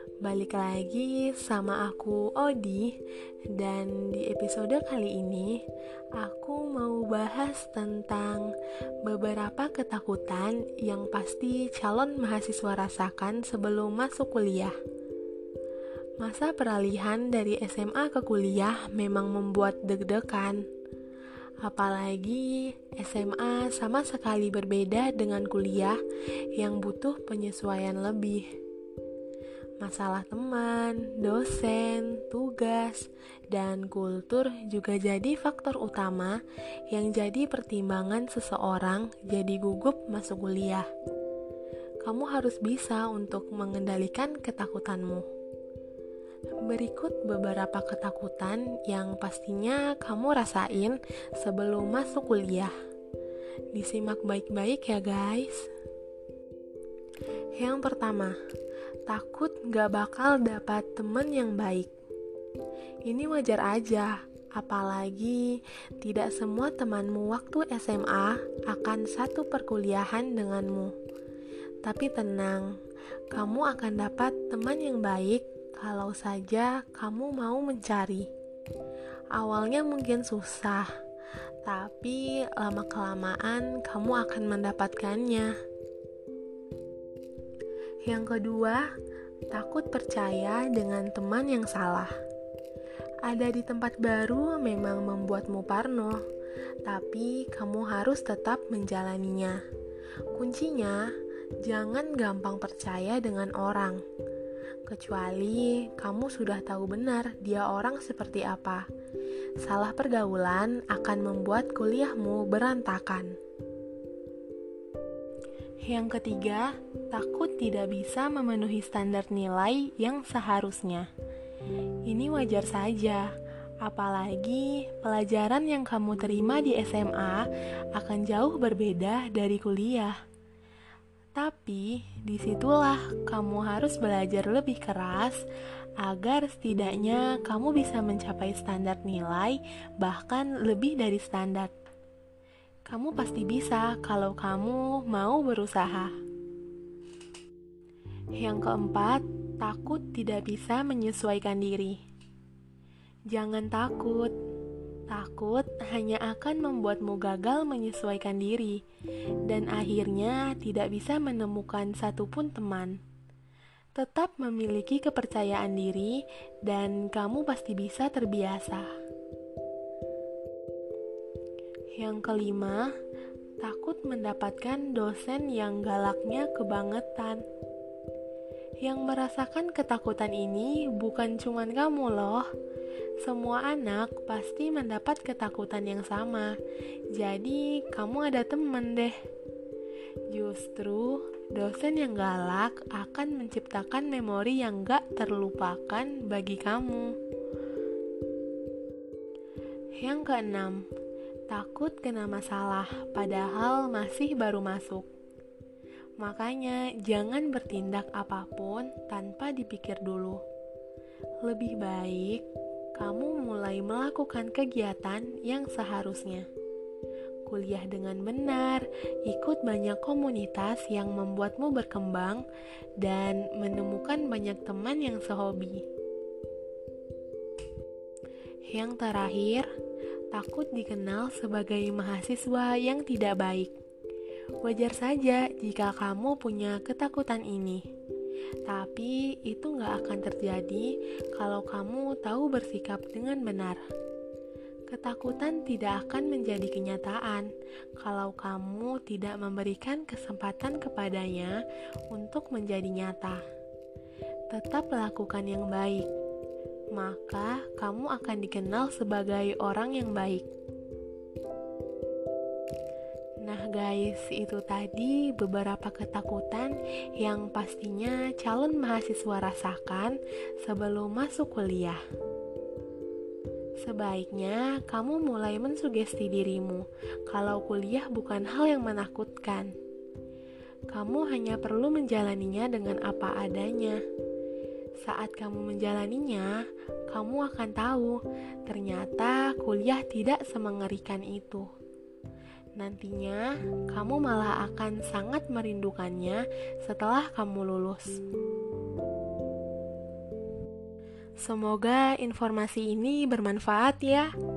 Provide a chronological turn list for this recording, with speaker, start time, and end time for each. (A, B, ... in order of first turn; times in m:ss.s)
0:00.2-0:03.0 A
0:03.5-0:05.6 A
0:06.2-0:08.5 A
0:09.0-0:14.8 A
0:16.2-0:20.6 A
0:21.6-0:26.0 A
0:26.6-0:28.5 A
0:29.8-0:40.9 A
0:42.0-0:45.3 A
0:46.6-0:52.7 A
0:53.7-0:55.7 A
0:57.6-0:58.4 A
0:59.1-1:01.9 A
1:03.1-1:10.9 A
1:11.8-1:12.7 A
1:13.3-1:18.3 A
1:19.3-1:20.9 A
1:21.6-1:25.5 A
1:28.0-1:28.8 A
1:29.5-1:32.1 A
1:33.2-1:36.2 A
1:36.8-1:39.6 A
1:40.3-1:41.1 A
1:41.6-1:44.0 A
1:44.9-1:48.8 A
1:49.6-1:53.4 A
1:55.8-2:01.1 A
2:02.1-2:03.3 A
2:03.8-2:10.2 A
2:11.4-2:15.4 A
2:16.0-2:21.7 A
2:22.9-2:26.1 A
2:28.4-2:32.0 A
2:33.3-2:34.3 A
2:35.1-2:38.8 A
2:39.4-2:43.0 A
2:44.0-2:48.9 A
2:52.0-2:52.9 A
2:53.6-2:57.4 A
2:58.8-3:02.5 A
3:03.2-3:06.5 A
3:07.1-3:09.2 A
3:10.3-3:17.2 A
3:20.0-3:20.8 A
3:21.5-3:25.1 A
3:26.2-3:30.4 A
3:31.4-3:32.4 A
3:33.0-3:36.5 A
3:37.5-3:42.4 A
3:43.0-3:45.9 A
3:48.7-3:49.7 A
3:50.3-3:53.7 A
3:54.6-3:57.8 A
3:58.7-4:03.8 A
4:04.9-4:11.6 A
4:12.1-4:13.4 A
4:14.5-4:16.1 A
4:16.9-4:20.5 A
4:23.4-4:32.0 A
4:33.8-4:39.7 A
4:40.9-4:44.0 A
4:45.0-4:46.5 A
4:47.1-4:51.7 A
4:52.8-4:58.2 A
5:01.4-5:04.3 A